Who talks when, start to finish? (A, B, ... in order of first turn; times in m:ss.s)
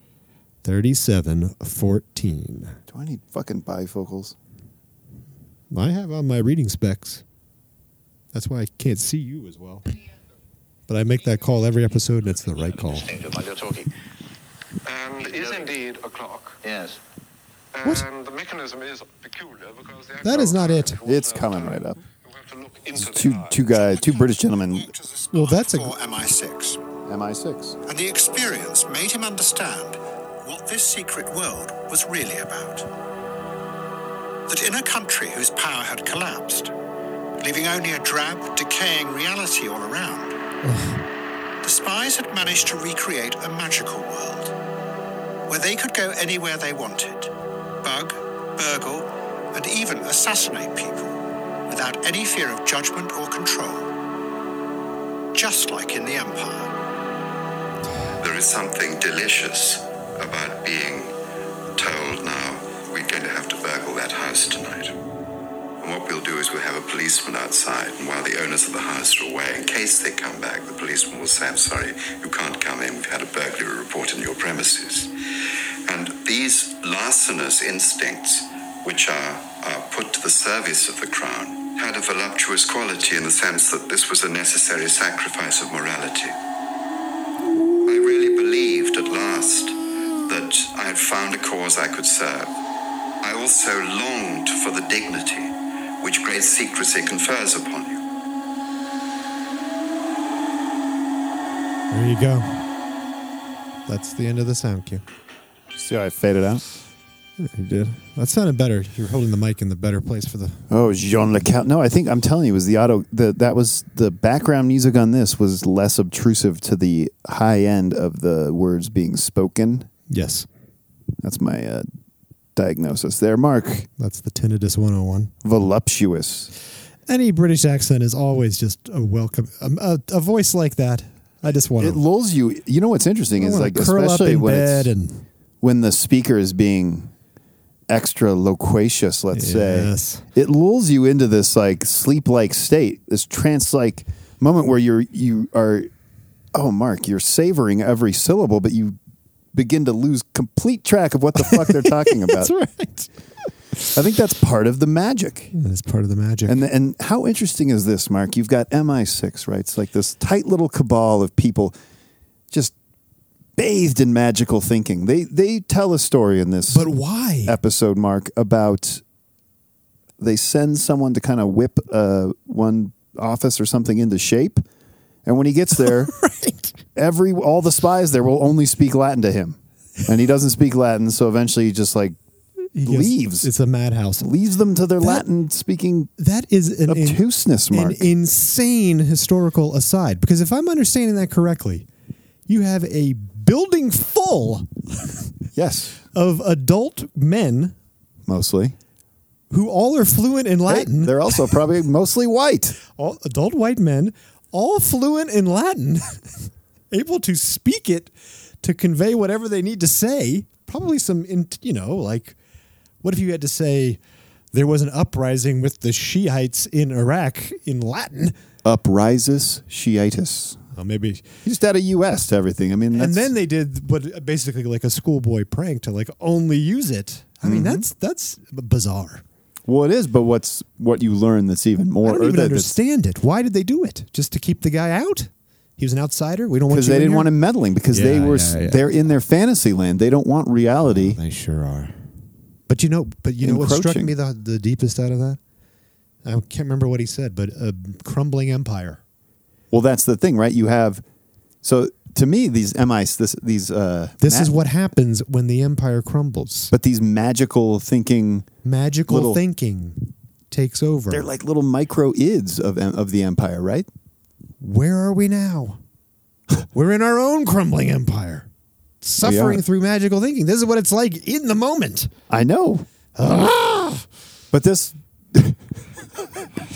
0:00.6-0:02.8 A
0:02.9-0:04.3 B
0:05.7-0:07.2 A
0:08.3-0:09.8 A
0:10.9-0:13.1 A
0:14.8-0:16.8 C
0:17.7-0:23.7 C
0:20.2-0:21.0 A
0:21.0-0:22.0 B
0:22.9-0:24.9 B
0:23.8-0:26.8 D
0:25.3-0:25.9 A
0:27.1-0:27.8 B
0:27.8-0:32.9 D
0:34.5-0:36.7 D
0:37.4-0:40.4 D
0:40.6-0:41.0 A
0:41.6-0:44.5 D
0:45.5-0:47.3 D
0:47.8-0:51.1 D
0:51.7-0:53.9 D
0:55.3-0:56.7 D
0:58.2-1:01.1 E
1:01.8-1:04.9 E
1:05.8-1:15.1 E
1:15.9-1:26.4 E
1:27.8-1:32.5 E
1:33.2-1:38.0 E
1:41.9-1:42.6 A
1:43.9-1:45.0 A
1:45.8-1:46.6 B
1:47.4-1:50.6 A
1:50.7-1:59.9 B
2:00.1-2:00.5 A
2:01.2-2:01.9 B
2:02.6-2:03.9 B
2:04.0-2:05.3 A
2:05.4-2:06.5 B
2:07.1-2:12.0 A
2:11.8-2:14.9 B
2:13.4-2:15.2 A
2:15.6-2:17.1 B
2:17.9-2:25.9 B
2:19.3-2:20.2 A
2:26.5-2:29.0 B
2:29.5-2:32.5 B
2:31.4-2:33.1 A
2:33.9-2:35.5 B
2:35.5-2:36.6 A
2:36.4-2:41.8 B
2:43.6-2:46.9 B
2:46.7-2:47.6 A
2:47.4-2:49.0 B
2:50.2-2:54.6 B
2:55.2-2:56.1 B
2:55.8-2:56.8 A
2:56.9-3:02.2 B
3:02.7-3:04.3 A
3:02.8-3:03.5 B
3:04.2-3:06.1 B
3:06.2-3:11.8 A
3:06.9-3:08.1 B
3:12.5-3:15.2 A
3:15.5-3:16.0 B
3:16.1-3:17.7 A
3:18.2-3:18.7 B
3:19.5-3:21.6 A
3:20.7-3:22.8 B
3:23.0-3:26.2 A
3:26.9-3:32.4 A
3:33.0-3:34.0 A
3:34.5-3:38.3 A
3:38.6-3:40.6 B
3:40.7-3:41.3 A
3:41.4-3:43.3 B
3:42.9-3:49.2 A
3:47.4-3:47.8 B
3:49.7-3:52.8 B
3:52.0-3:57.3 A
3:56.7-4:01.2 B
3:57.9-3:58.8 A
4:01.0-4:01.9 A
4:02.7-4:05.4 A
4:03.4-4:04.1 B
4:06.2-4:09.0 A
4:09.7-4:11.0 B
4:11.6-4:14.5 B
4:14.2-4:16.7 A
4:16.7-4:18.5 B
4:18.6-4:21.3 A
4:19.1-4:19.4 B
4:21.1-4:23.9 B
4:24.6-4:25.8 A
4:26.7-4:28.5 A
4:29.0-4:32.1 A
4:29.2-4:29.6 B
4:32.3-4:32.8 B
4:33.2-4:34.0 A
4:34.5-4:35.6 B